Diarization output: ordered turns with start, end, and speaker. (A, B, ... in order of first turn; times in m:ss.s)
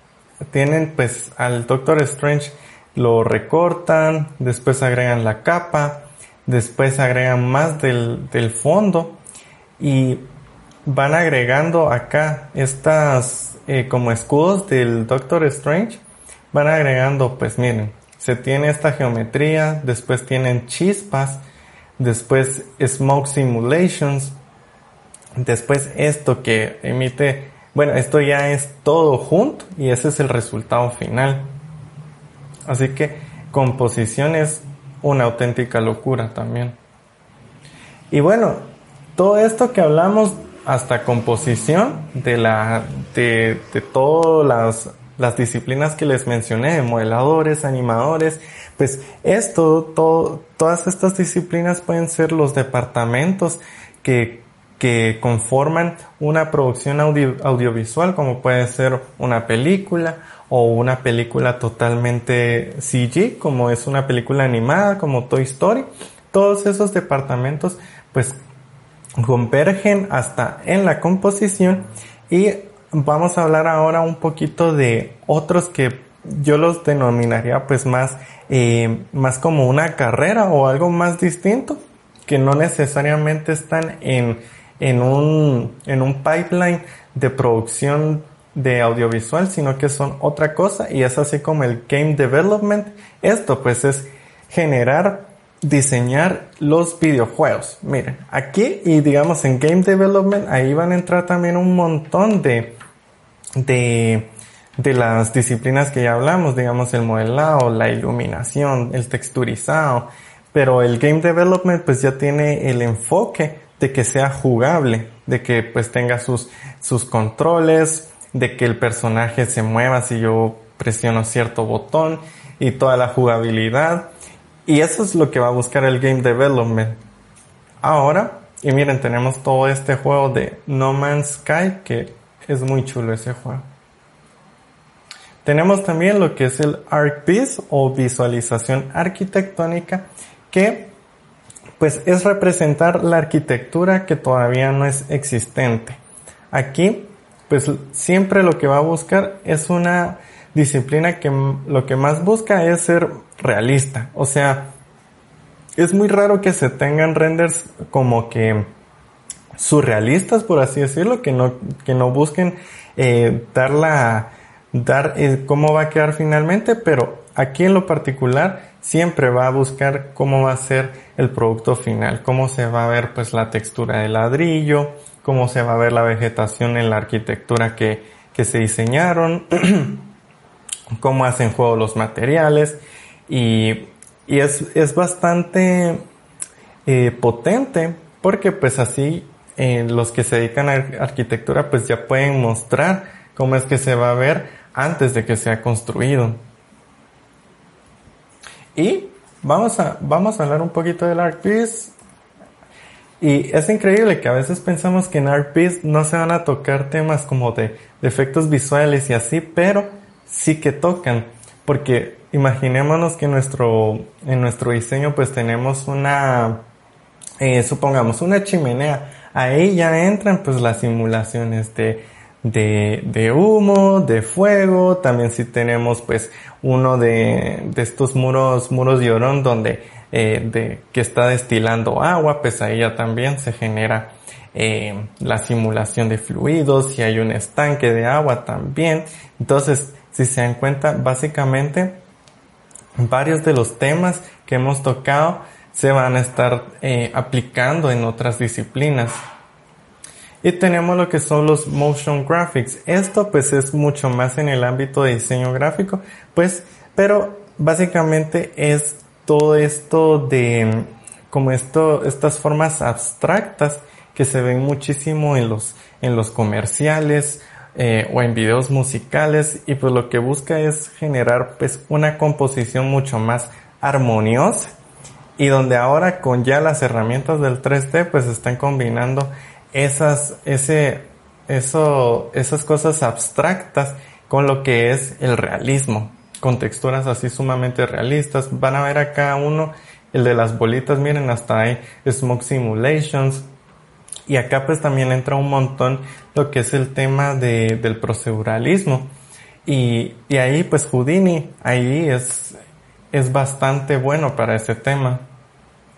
0:00.5-0:09.2 A
0:09.8-0:10.2 A
0:10.8-0:21.4 A
0:22.0-0:24.4 A
0:25.4-0:31.5 A
0:32.7-0:36.8 A
0:38.1-1:08.4 A
1:09.2-1:42.8 A
1:43.6-2:04.1 A
2:04.6-2:07.0 A
2:07.8-2:13.7 A
2:15.4-2:21.0 A
2:21.8-2:26.0 A
2:26.5-2:34.7 A
2:35.8-2:38.7 A
2:39.6-3:00.1 A
3:01.0-3:06.0 A
3:06.8-3:16.4 A
3:18.8-3:21.9 A
3:23.2-3:36.6 A
3:37.4-4:02.0 A
4:03.0-4:09.2 A
4:10.4-4:34.7 A
4:35.4-4:53.5 A
4:54.3-4:59.1 A
4:59.6-5:02.6 A
5:03.1-5:05.3 A